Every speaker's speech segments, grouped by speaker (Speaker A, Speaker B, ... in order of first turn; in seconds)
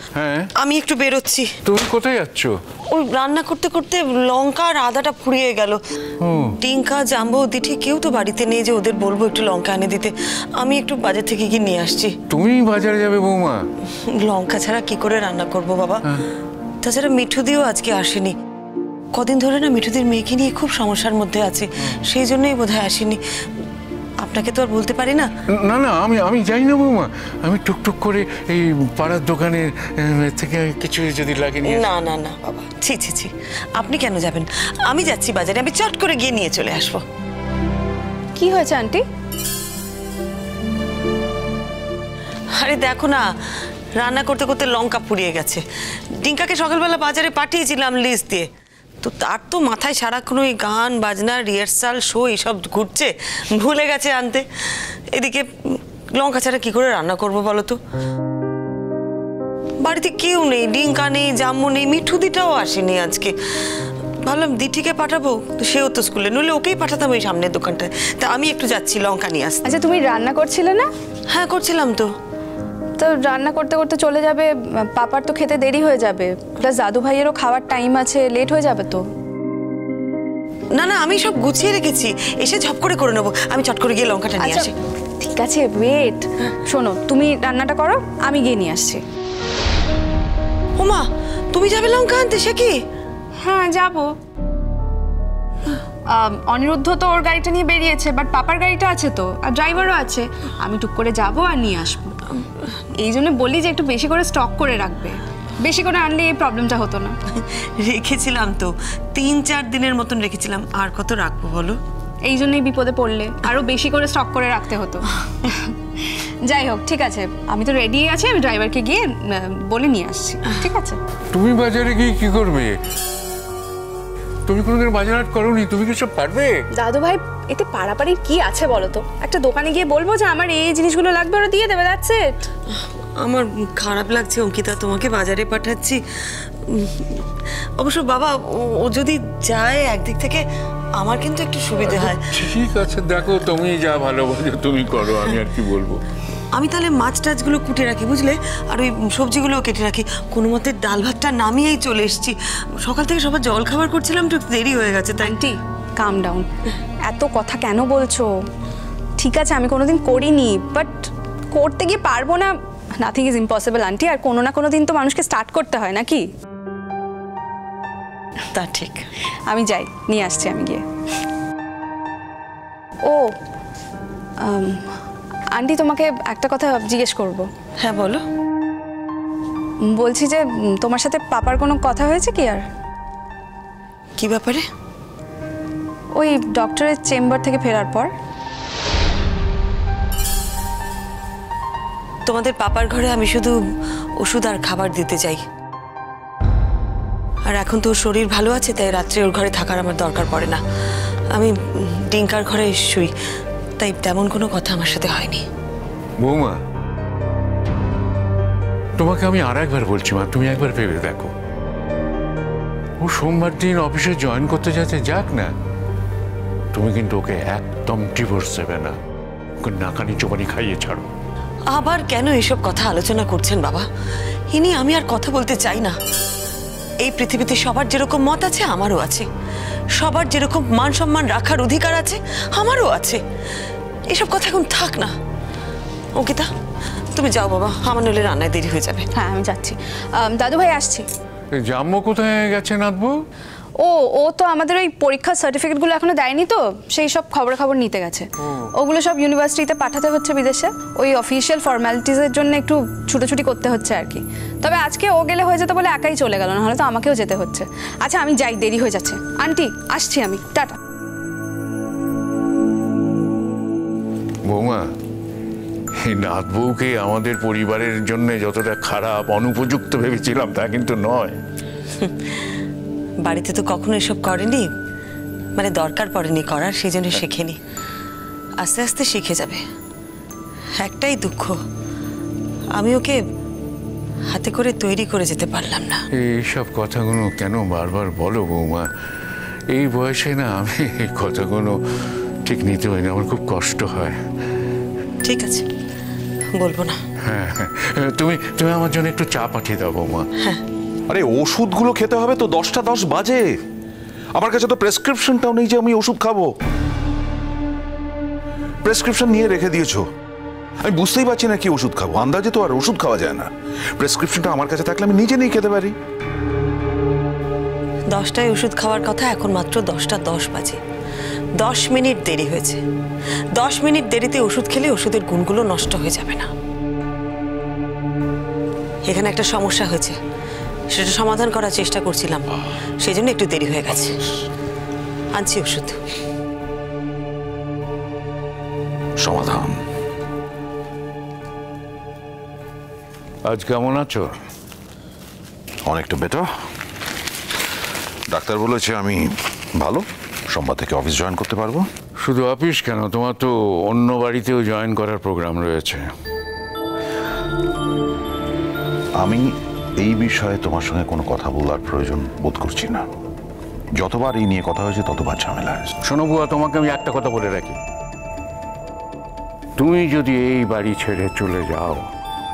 Speaker A: 0.1-0.5, 1.6-2.6, 6.2-6.5, 12.3-13.6, 25.5-31.9, 121.3-122.8, 124.5-126.6, 141.8-146.0, 206.2-206.6, 209.0-211.3, 213.0-215.5, 216.7-219.0, 219.6-221.1, 241.5-243.2, 264.4-264.9, 266.0-271.4, 286.2-288.9, 289.7-291.8, 292.4-294.2, 297.3-300.2, 343.4-344.4, 352.2-356.1, 366.0-367.8, 369.8-372.1
Speaker B: 0.6-1.5, 2.9-5.8, 6.6-12.1, 14.1-16.0, 16.8-18.3, 19.1-23.2, 24.2-25.3, 31.6-37.0, 42.5-43.2, 44.0-45.6, 46.2-48.5, 49.0-55.5, 56.1-57.8, 59.8-63.3, 64.2-69.6, 71.3-72.1, 80.8-84.7, 90.8-92.8, 107.4-111.8, 133.2-136.0, 136.7-137.2, 137.8-140.4, 141.0-142.2, 146.5-155.4, 168.5-169.1, 177.8-178.2, 184.2-184.6, 192.2-193.6, 194.2-195.4, 197.5-200.6, 201.3-203.1, 203.8-205.4, 221.7-223.9, 224.5-225.9, 227.0-229.3, 230.0-233.2, 234.1-235.1, 236.2-236.5, 237.1-239.1, 273.2-274.7, 275.6-277.6, 278.6-279.6, 280.8-281.5, 282.7-283.2, 284.3-286.0, 295.2-295.6, 296.6-297.0, 318.1-320.8, 321.6-322.8, 323.6-326.5, 329.1-330.2, 330.9-332.5, 333.0-334.2, 335.3-336.0
Speaker C: 38.4-39.0, 69.6-70.9, 73.0-79.0, 84.4-89.0, 93.4-94.1, 96.1-102.2, 103.0-107.1, 112.2-115.7, 116.4-121.0, 126.7-132.4, 155.2-156.5, 157.1-158.3, 159.2-166.2, 169.5-170.8, 173.1-173.3, 174.4-174.8, 175.6-177.4, 179.9-182.6, 186.2-188.1, 239.2-241.1, 243.8-260.7
Speaker D: 301.1-303.4, 304.4-306.5, 308.8-310.0, 310.8-315.9, 339.2-339.8, 345.9-346.5, 348.3-351.9, 359.2-363.0, 364.0-365.9